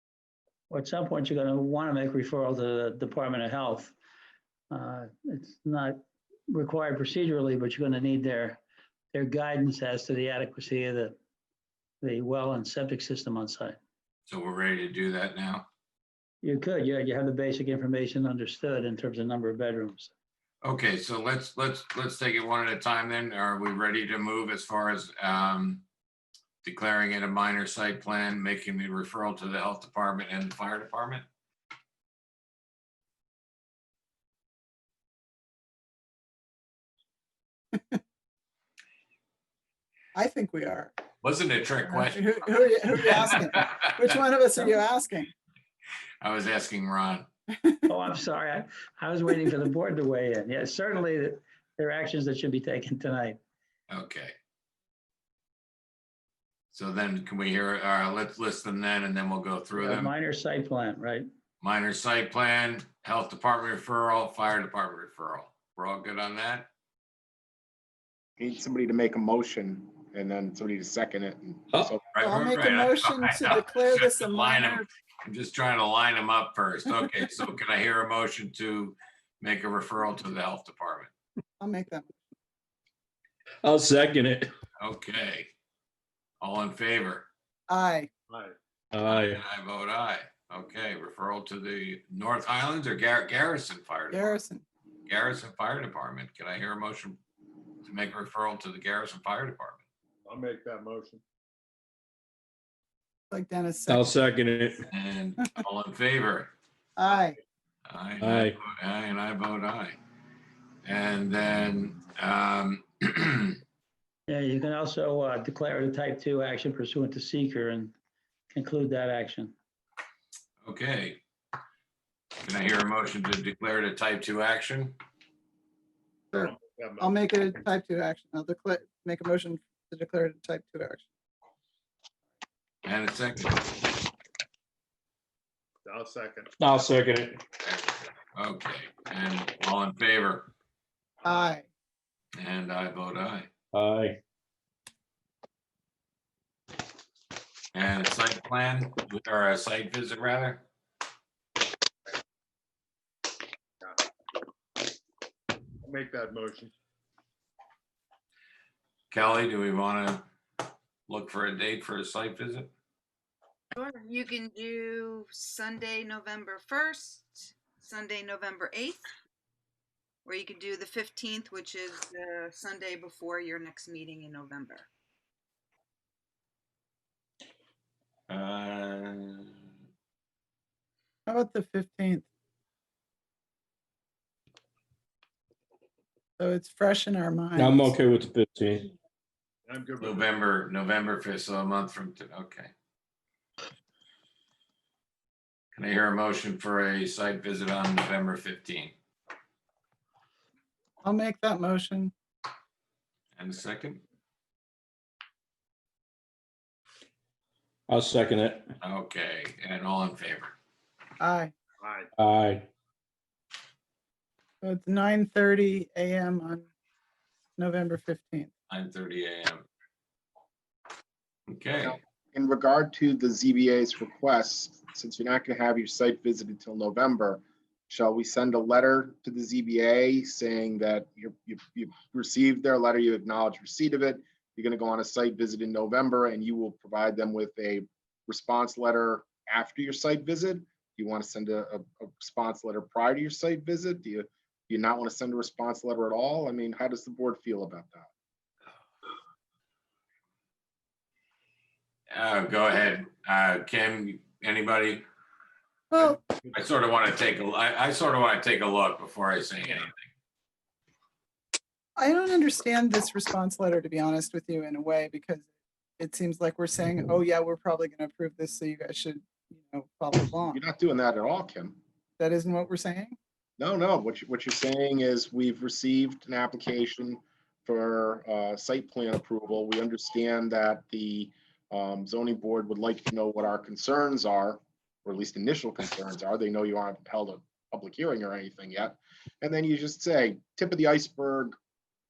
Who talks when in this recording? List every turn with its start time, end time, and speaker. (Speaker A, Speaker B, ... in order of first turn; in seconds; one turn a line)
Speaker A: 0.7-3.9
Speaker A: 4.7-8.6
Speaker A: 9.1-11.1
Speaker A: 12.0-13.8
Speaker B: 14.3-15.7
Speaker A: 16.4-20.1
Speaker B: 20.6-25.8
Speaker B: 26.6-31.2
Speaker C: 40.1-40.9
Speaker B: 41.2-43.9
Speaker C: 41.9-45.3
Speaker B: 46.2-47.3
Speaker A: 47.9-53.4
Speaker B: 53.9-54.3
Speaker B: 56.7-60.1
Speaker A: 59.7-61.2
Speaker B: 61.6-66.7
Speaker D: 68.4-72.1
Speaker B: 72.1-81.1
Speaker C: 72.2-74.9
Speaker C: 81.6-82.1
Speaker E: 83.6-84.5
Speaker B: 84.8-85.5
Speaker B: 86.4-87.3
Speaker C: 87.7-88.1
Speaker F: 88.3-88.5
Speaker E: 88.9-89.4
Speaker B: 89.0-94.4
Speaker C: 94.1-94.6
Speaker B: 95.1-97.2
Speaker B: 97.8-99.8
Speaker F: 100.2-101.2
Speaker C: 103.3-104.1
Speaker E: 103.9-104.8
Speaker B: 104.9-106.5
Speaker C: 107.0-107.4
Speaker B: 107.8-110.0
Speaker E: 108.2-108.5
Speaker B: 110.8-113.6
Speaker A: 114.3-117.9
Speaker A: 118.5-119.5
Speaker B: 120.6-121.2
Speaker B: 122.4-125.0
Speaker C: 126.3-131.0
Speaker F: 126.3-127.3
Speaker B: 132.8-133.9
Speaker F: 135.8-136.5
Speaker E: 136.6-137.4
Speaker B: 137.6-140.5
Speaker C: 141.2-141.6
Speaker B: 142.4-143.5
Speaker E: 143.7-144.2
Speaker B: 147.7-150.6
Speaker F: 155.8-156.7
Speaker B: 159.1-160.2
Speaker B: 161.1-162.7
Speaker G: 163.7-169.1
Speaker G: 170.2-174.8
Speaker B: 178.3-179.6
Speaker C: 181.3-182.2
Speaker C: 186.4-187.9
Speaker E: 187.5-188.9
Speaker F: 189.7-190.3
Speaker B: 190.0-192.7
Speaker B: 195.7-198.9
Speaker C: 201.0-202.1
Speaker B: 203.3-204.0
Speaker E: 207.9-208.7
Speaker B: 208.8-210.5
Speaker C: 211.2-211.5
Speaker F: 211.8-212.1
Speaker E: 212.2-212.7
Speaker C: 214.6-216.6
Speaker C: 217.6-218.5
Speaker B: 218.7-219.6
Speaker B: 221.5-222.0
Speaker D: 221.8-248.1
Speaker B: 252.1-255.0
Speaker C: 255.9-256.2
Speaker B: 256.5-260.1
Speaker C: 262.0-265.4
Speaker C: 266.0-270.6
Speaker D: 270.5-271.8
Speaker C: 272.2-273.1
Speaker D: 273.6-291.6